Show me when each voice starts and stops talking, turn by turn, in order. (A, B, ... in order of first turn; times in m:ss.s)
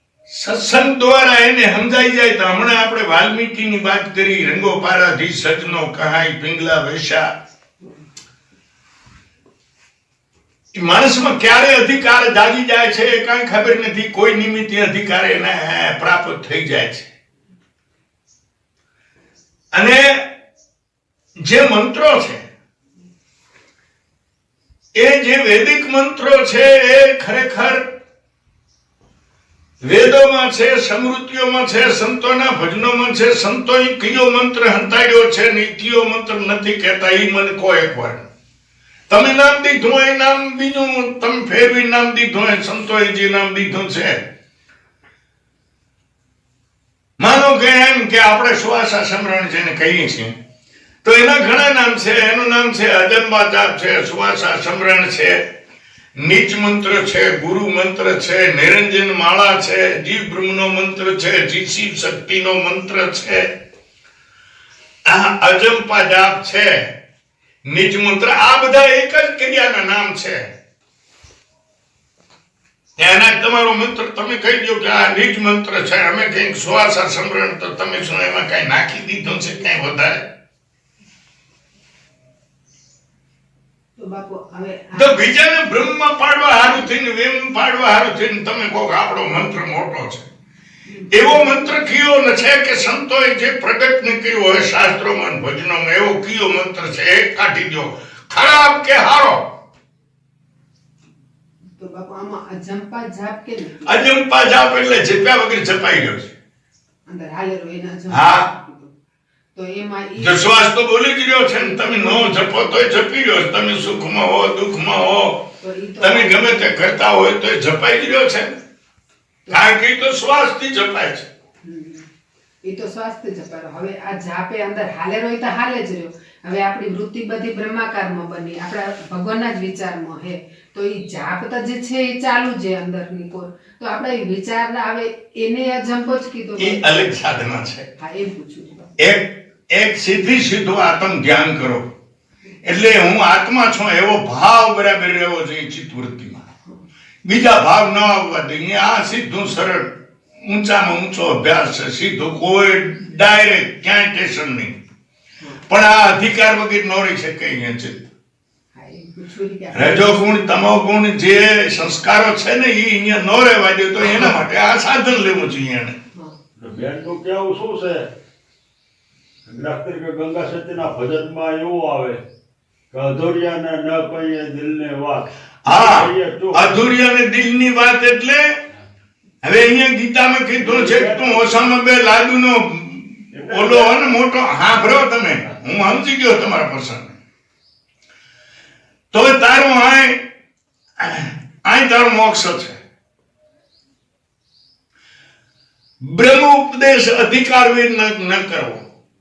0:00.3-0:07.3 A
0:10.7-0:17.1 A
0:19.7-0:20.3 A
0:21.4-0:22.4 A
0:24.9-0:27.9 A
0:29.8-0:38.3 A
0:39.1-0:44.2 A
0:47.2-0:50.3 A
0:51.0-0:55.4 A
0:56.2-1:03.5 A
1:05.1-1:06.9 A
1:07.6-1:10.5 A
1:13.0-1:20.3 A
1:24.0-1:25.3 B
1:24.9-1:30.3 A
1:30.9-1:31.8 B
1:31.1-1:39.5 A
1:41.8-1:44.0 B
1:43.8-1:46.3 A
1:47.1-1:48.9 B
1:48.1-1:48.5 A
1:49.6-1:50.5 B
1:50.2-1:55.5 A
1:51.7-1:52.7 B
1:55.6-1:56.8 B
1:56.0-1:58.6 A
1:59.5-2:01.3 A
2:01.6-2:02.1 B
2:02.6-2:17.1 B
2:16.6-2:17.9 A
2:18.0-2:19.0 B
2:19.0-2:21.8 A
2:22.6-2:26.4 A
2:27.2-2:34.8 A
2:35.7-2:38.1 A
2:38.7-2:40.6 B
2:39.7-2:46.0 A
2:46.6-2:48.1 C
2:49.4-2:52.2 C
2:52.9-2:56.8 C
2:55.6-2:58.6 A
2:59.4-3:07.2 A
3:00.6-3:01.7 C
3:03.3-3:04.2 C
3:09.1-3:10.2 A
3:11.0-3:12.8 A
3:16.0-3:18.9 A